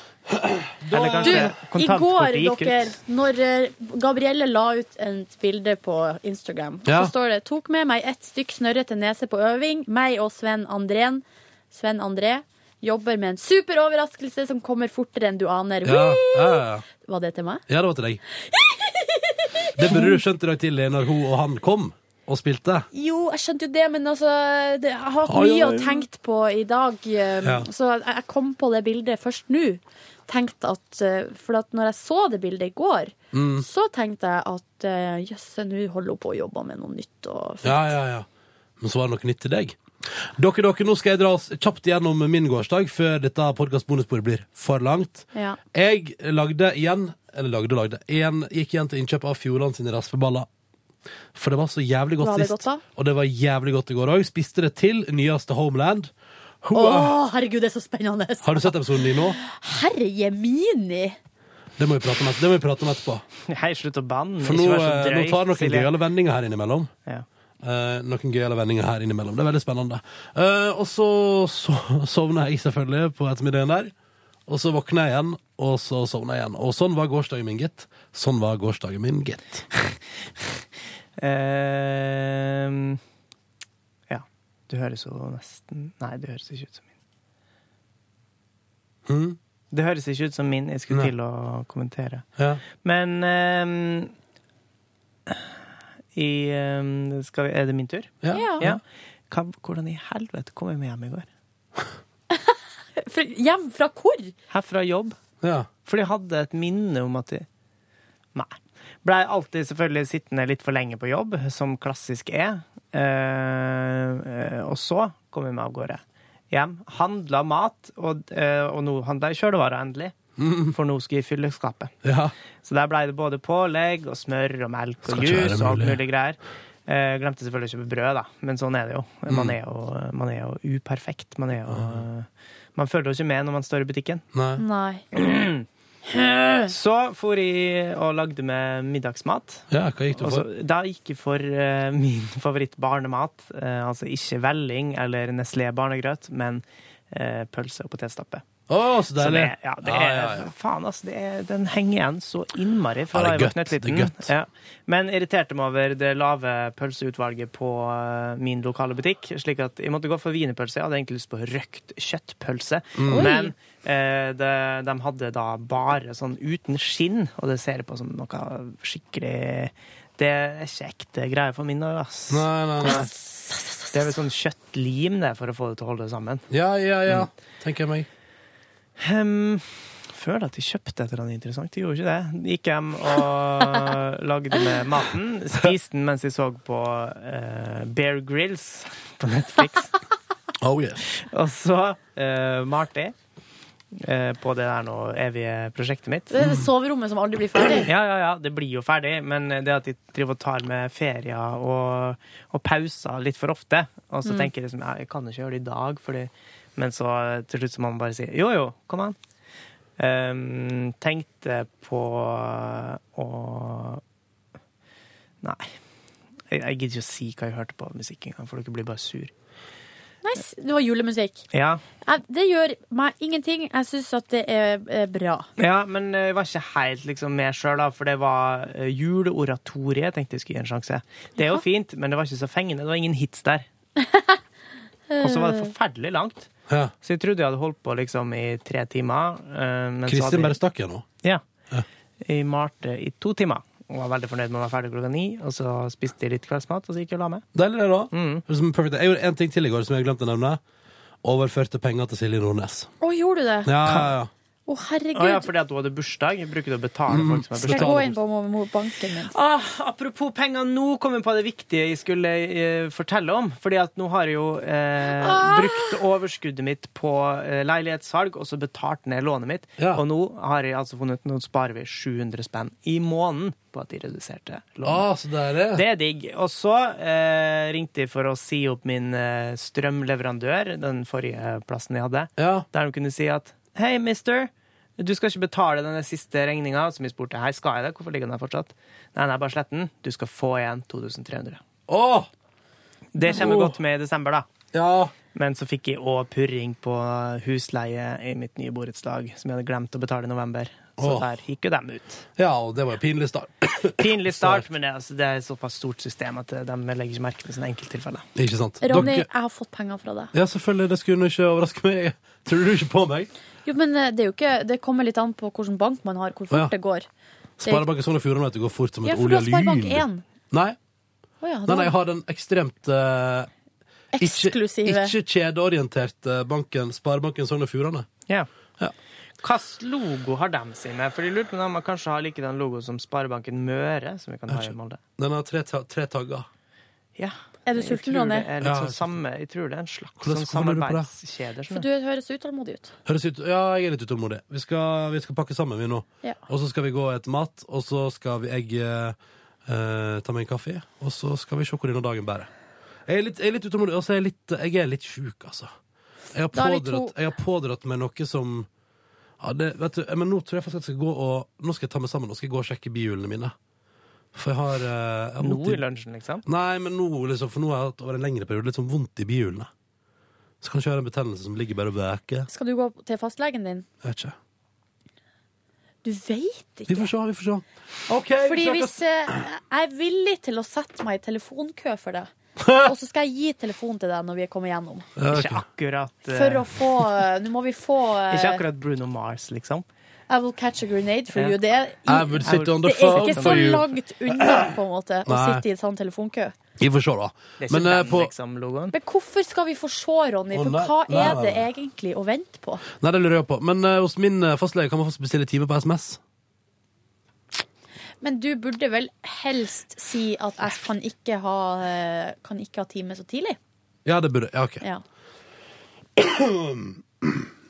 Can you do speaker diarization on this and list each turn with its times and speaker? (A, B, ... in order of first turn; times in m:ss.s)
0:00.3-0:01.5 A
0:00.9-0:03.0 B
0:01.2-0:17.6 C
0:06.8-0:07.1 A
0:15.8-0:16.8 A
0:17.7-0:18.2 A
0:18.4-0:20.2 C
0:19.8-0:22.9 A
0:22.9-0:37.9 C
0:25.3-0:26.0 A
0:27.4-0:27.7 A
0:33.3-0:33.7 A
0:37.6-0:38.3 A
0:38.8-0:50.5 A
0:45.3-0:45.6 C
0:51.4-0:56.1 A
0:52.2-0:52.8 C
0:56.6-0:57.2 A
0:56.7-1:01.2 C
0:58.4-0:59.4 A
1:01.8-1:03.2 A
1:03.5-1:05.9 B
1:04.4-1:06.9 A
1:07.6-1:13.9 A
1:14.5-1:19.7 A
1:21.2-1:23.0 B
1:24.1-1:26.9 B
1:29.1-1:29.4 A
1:29.7-1:32.3 B
1:32.4-1:32.6 A
1:32.8-1:34.1 B
1:36.2-1:41.3 B
1:38.2-1:38.8 A
1:38.3-1:38.7 C
1:42.3-1:44.3 C
1:44.5-1:45.2 B
1:45.4-1:45.7 A
1:45.8-1:47.5 B
1:48.4-2:00.2 B
2:00.4-2:00.8 A
2:00.7-2:02.0 B
2:02.0-2:02.3 A
2:02.6-2:14.3 B
2:05.1-2:06.0 A
2:09.3-2:09.5 A
2:11.7-2:12.0 A
2:14.3-2:14.6 A
2:14.6-2:15.0 C
2:15.1-2:15.6 B
2:16.1-2:16.7 C
2:16.7-2:28.4 B
2:19.7-2:20.5 A
2:28.7-2:30.5 A
2:29.2-2:53.1 B
2:33.1-2:34.3 A
2:43.0-2:43.3 A
2:43.1-2:43.5 C
2:52.3-2:53.1 A
2:52.8-2:54.0 C
2:53.9-2:56.5 B
2:56.5-2:58.1 A
2:59.0-3:10.0 B
3:10.6-3:11.1 A
3:11.1-3:13.1 B
3:13.9-3:16.3 B
3:16.3-3:17.9 C
3:17.9-3:29.2 B
3:24.2-3:24.5 C
3:30.0-3:34.0 B
3:35.4-3:35.8 B
3:36.5-3:39.3 B
3:40.2-3:41.4 C
3:41.5-3:41.8 B
3:42.1-3:45.5 C
3:45.6-3:53.7 B
3:54.0-3:54.3 C
3:55.1-3:55.7 C
3:55.2-3:56.5 B
3:57.0-4:00.6 B
4:00.1-4:01.1 A
4:02.3-4:07.5 B
4:07.5-4:10.6 A
4:08.1-4:08.4 B
4:11.2-4:12.9 A
4:13.0-4:13.7 C
4:13.6-4:14.3 A
4:13.9-4:14.1 B
4:14.7-4:15.5 C
4:15.2-4:18.0 B
4:17.1-4:18.2 A
4:17.6-4:19.3 C
4:19.3-4:35.0 B
4:25.2-4:25.9 C
4:34.8-4:35.8 A
4:35.7-4:51.6 B
4:42.4-4:42.7 A
4:51.9-4:52.3 A
4:53.1-4:54.5 B
4:53.2-4:53.8 A
4:54.7-4:55.1 A
4:55.3-5:02.3 B
5:01.0-5:01.3 A
5:02.4-5:04.6 A
5:04.0-5:08.2 B
5:08.4-5:09.3 A
5:08.8-5:10.3 C
5:10.3-5:13.3 A
5:13.6-5:17.1 C
5:17.6-5:20.8 A
5:19.0-5:20.2 C
5:21.4-5:21.9 C
5:21.7-5:23.5 A
5:24.1-5:25.1 C
5:24.2-5:28.1 A
5:29.4-5:35.0 B
5:34.5-5:36.5 A
5:37.2-5:41.9 B
5:37.7-5:38.5 C
5:38.6-5:39.1 A
5:40.2-5:41.1 A
5:41.7-5:42.9 C
5:43.0-5:49.2 A
5:49.7-5:52.5 A
5:53.1-5:55.7 A
5:56.3-5:58.7 A
5:56.5-5:57.1 C
5:59.4-6:03.5 A
6:04.3-6:05.8 A
6:05.4-6:06.5 B
6:06.4-6:09.7 A
6:10.6-6:12.5 A
6:12.5-6:13.9 C
6:14.0-6:14.4 A
6:16.0-6:17.1 C
6:16.9-6:19.0 A
6:18.4-6:25.1 C
6:22.6-6:22.9 A
6:25.2-6:25.6 A
6:25.3-6:26.7 B
6:26.3-6:28.6 C
6:28.3-6:29.8 B
6:30.3-6:36.6 C
6:31.3-6:31.6 B
6:32.1-6:34.7 A
6:32.4-6:33.9 B
6:35.3-6:35.6 A
6:36.8-6:38.3 A
6:37.6-6:39.0 B
6:38.9-6:42.8 C
6:40.5-6:41.6 A
6:43.0-6:46.2 A
6:48.2-6:53.6 C
6:54.0-6:54.8 A
6:56.2-6:57.5 A